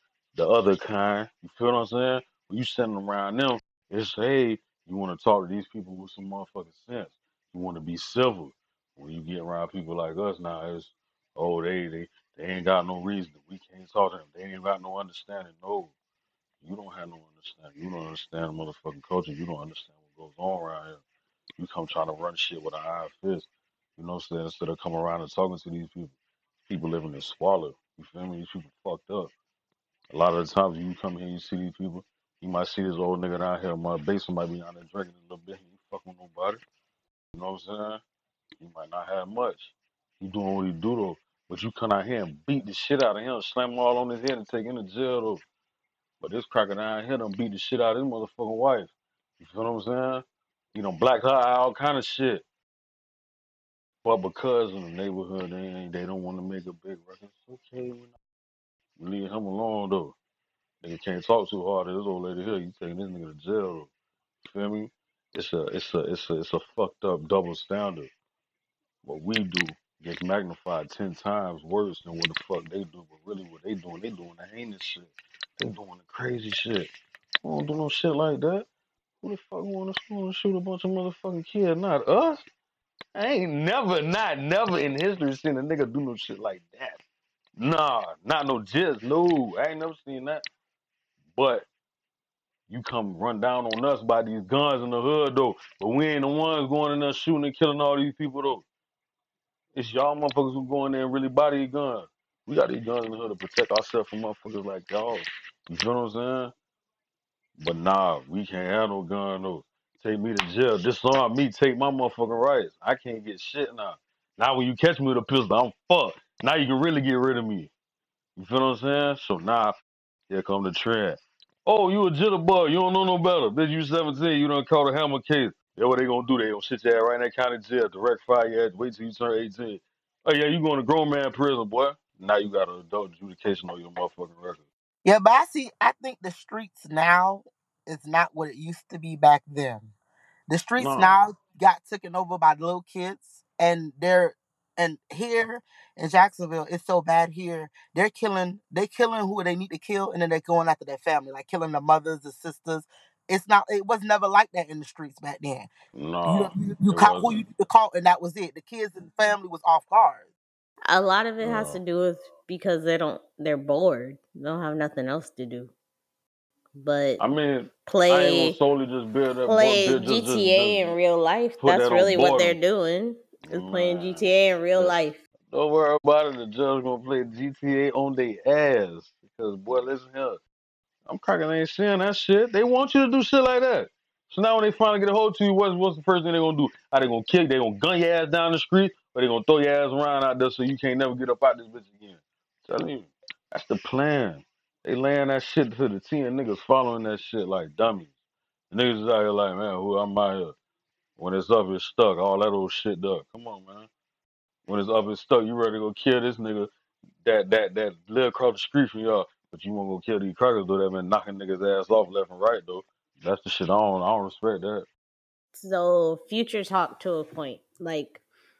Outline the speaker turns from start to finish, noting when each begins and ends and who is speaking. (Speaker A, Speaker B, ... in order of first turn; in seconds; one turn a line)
Speaker A: 0.3-15.9
Speaker A: 16.6-21.0
Speaker A: 21.6-23.4
Speaker A: 24.0-26.1
Speaker A: 26.7-29.3
Speaker A: 30.1-36.6
Speaker A: 37.3-38.0
Speaker A: 38.6-45.4
Speaker A: 46.2-52.4
Speaker A: 54.0-58.1
Speaker A: 59.0-60.1
Speaker A: 60.8-63.9
Speaker A: 64.4-68.1
Speaker A: 69.0-76.9
Speaker A: 77.4-78.7
Speaker A: 79.2-82.4
Speaker A: 83.1-87.0
Speaker A: 87.6-90.4
Speaker A: 91.3-91.7
Speaker A: 92.7-98.6
Speaker A: 99.7-106.5
Speaker A: 107.6-117.7
Speaker A: 118.4-119.7
Speaker A: 120.3-134.6
Speaker B: 135.0-139.9
Speaker B: 140.5-155.7
Speaker A: 140.8-141.2
Speaker A: 155.9-157.4
Speaker B: 156.2-160.3
Speaker C: 160.9-165.7
Speaker A: 161.4-161.8
Speaker C: 166.8-167.2
Speaker A: 167.2-170.9
Speaker C: 167.8-168.6
Speaker C: 169.5-175.2
Speaker A: 171.6-172.6
Speaker A: 173.4-175.0
Speaker A: 175.5-180.4
Speaker A: 181.1-198.1
Speaker A: 198.7-200.5
Speaker A: 201.2-203.9
Speaker A: 204.7-206.7
Speaker A: 207.2-214.8
Speaker C: 215.5-218.2